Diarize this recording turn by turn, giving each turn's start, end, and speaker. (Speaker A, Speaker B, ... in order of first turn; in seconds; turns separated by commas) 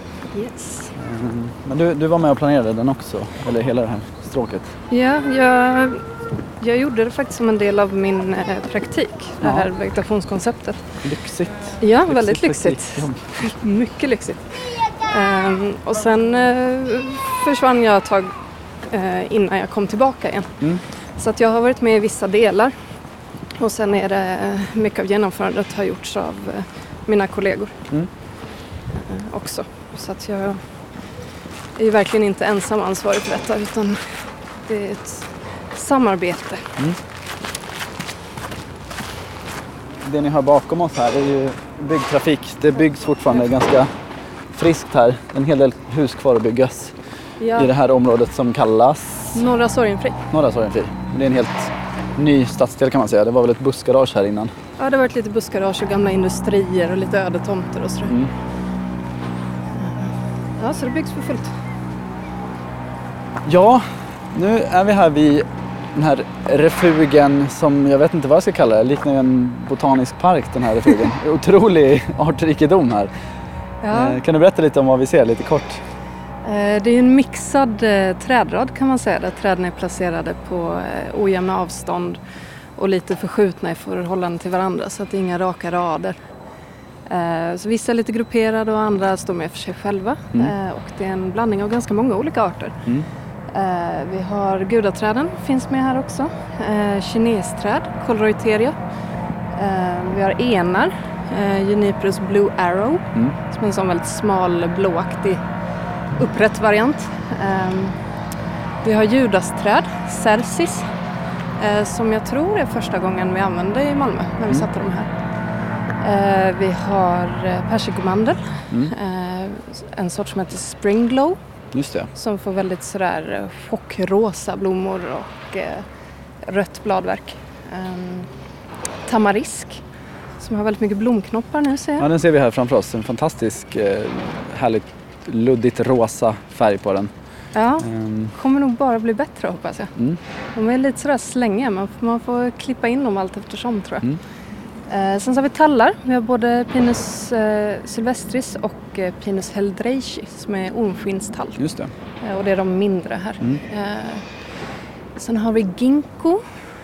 Speaker A: 0.3-0.9, Speaker B: 0.9-4.8, Speaker A: 4.9-6.0, Speaker A: 6.6-11.0, Speaker B: 9.4-9.7, Speaker B: 11.0-13.5, Speaker A: 11.8-18.3, Speaker A: 18.8-20.6, Speaker A: 21.2-22.7, Speaker A: 23.6-27.8, Speaker A: 28.9-30.6, Speaker A: 31.8-36.8, Speaker B: 40.0-43.9, Speaker B: 44.5-47.0, Speaker A: 47.4-47.7, Speaker B: 47.5-49.4, Speaker A: 49.3-50.2, Speaker B: 50.3-54.5, Speaker A: 54.8-58.2, Speaker B: 58.1-58.3, Speaker A: 59.8-61.5, Speaker B: 63.5-73.1, Speaker A: 73.8-74.2, Speaker B: 73.9-75.8, Speaker A: 76.4-82.2, Speaker A: 82.8-86.2, Speaker A: 87.1-92.8, Speaker A: 93.5-98.8, Speaker A: 99.5-105.4, Speaker A: 106.2-108.0, Speaker A: 108.8-110.9, Speaker A: 111.6-115.1, Speaker A: 116.0-121.4, Speaker B: 118.7-118.9, Speaker B: 121.7-122.1, Speaker A: 122.1-125.8, Speaker A: 126.4-128.3, Speaker A: 129.1-129.8, Speaker A: 130.4-132.1, Speaker B: 132.0-137.1, Speaker A: 137.5-139.9, Speaker B: 137.8-138.3, Speaker A: 140.5-144.1, Speaker A: 144.9-151.6, Speaker B: 151.6-151.9, Speaker A: 152.2-154.3, Speaker A: 155.2-156.4